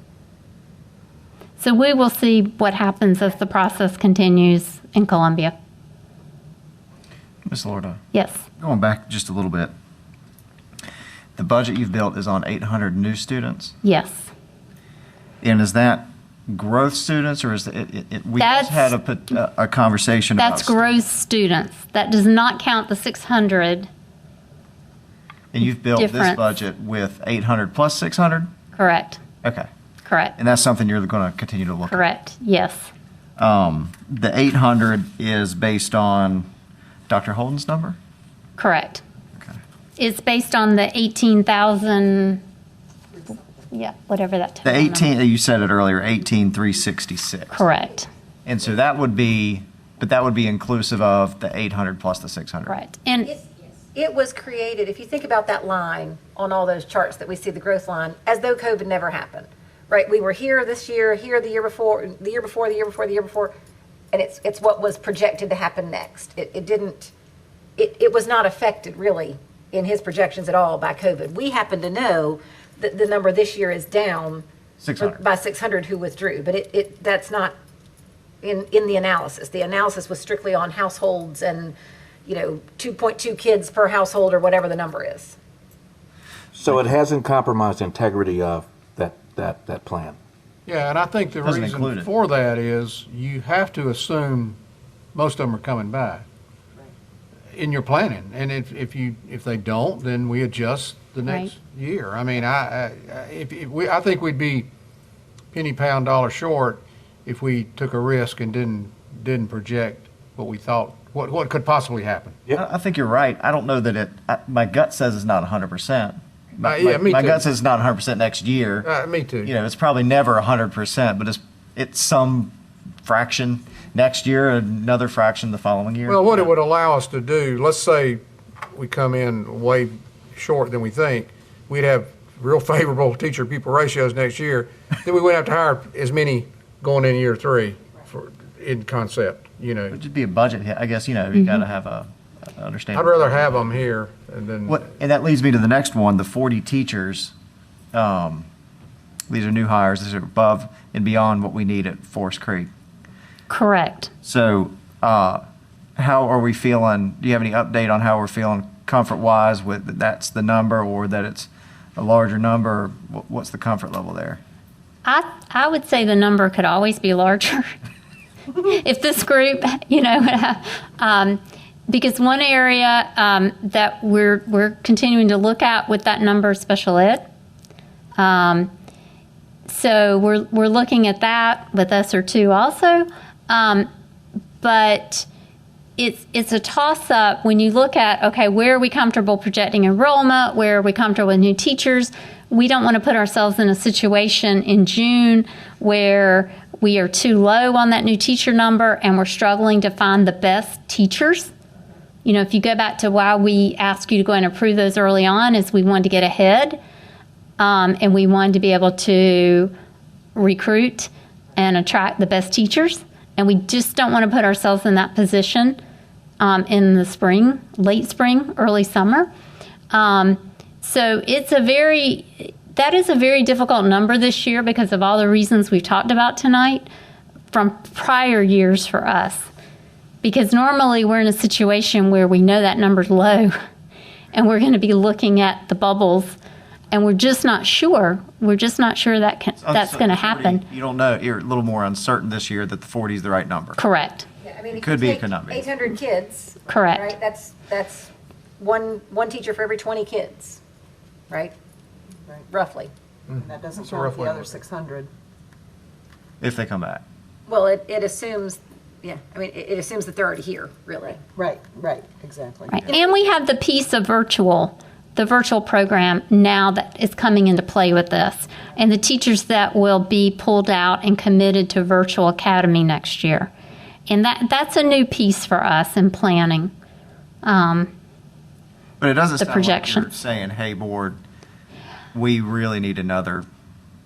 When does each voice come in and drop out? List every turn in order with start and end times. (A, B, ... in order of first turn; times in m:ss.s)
0:01.6-0:05.5 A
0:07.4-0:08.0 B
0:08.1-0:08.4 A
0:08.6-0:09.7 B
0:11.4-0:13.7 B
0:13.8-0:14.3 A
0:15.4-0:21.0 B
0:18.4-0:18.9 A
0:20.4-0:23.9 A
0:25.5-0:28.5 B
0:26.0-0:26.4 A
0:28.7-0:29.2 A
0:30.0-0:30.4 A
0:30.4-0:32.0 B
0:31.9-0:32.9 A
0:33.4-0:36.5 B
0:37.1-0:38.0 B
0:38.6-0:39.0 A
0:40.0-0:42.4 A
0:43.7-0:45.1 A
0:44.6-0:47.6 B
0:47.5-0:48.1 A
0:48.4-0:52.8 B
0:52.7-0:53.3 A
0:53.9-1:03.5 C
1:04.1-1:07.1 C
1:07.8-1:14.4 C
1:14.8-1:15.2 B
1:15.0-1:17.5 C
1:18.4-1:25.4 C
1:26.5-1:30.2 D
1:30.6-1:34.6 E
1:31.4-1:32.1 B
1:35.1-1:36.2 E
1:37.5-1:44.7 E
1:45.5-1:52.4 E
1:52.5-1:58.9 B
1:56.6-1:57.4 E
1:58.8-1:59.5 E
1:59.4-2:06.5 B
2:06.0-2:08.2 E
2:08.7-2:20.0 E
2:19.9-2:23.8 B
2:22.9-2:24.8 E
2:24.7-2:27.3 B
2:27.9-2:28.5 B
2:29.3-2:32.7 B
2:33.5-2:34.1 A
2:34.2-2:35.4 B
2:36.0-2:44.4 B
2:45.0-2:47.7 A
2:48.6-2:57.2 A
2:58.2-2:58.7 A
2:59.7-3:03.9 A
3:04.6-3:05.3 A
3:06.0-3:21.5 A
3:22.2-3:26.8 A
3:27.6-3:29.7 A
3:30.3-3:35.8 A
3:36.4-3:39.3 A
3:39.9-3:46.8 A
3:47.5-3:49.5 A
3:50.2-3:53.5 A
3:54.3-3:56.4 A
3:56.9-4:00.6 A
3:59.6-4:03.8 B
4:03.8-4:04.2 A
4:04.4-4:10.6 C
4:04.7-4:05.7 B
4:06.7-4:07.1 A
4:12.5-4:12.9 C
4:13.3-4:14.5 E
4:13.4-4:15.1 F
4:16.4-4:17.0 B
4:17.5-4:21.3 C
4:21.2-4:22.9 F
4:22.7-4:33.5 A
4:34.1-4:36.7 A
4:37.4-4:37.9 A
4:39.0-4:41.2 B
4:39.4-4:40.1 A
4:42.1-4:43.4 B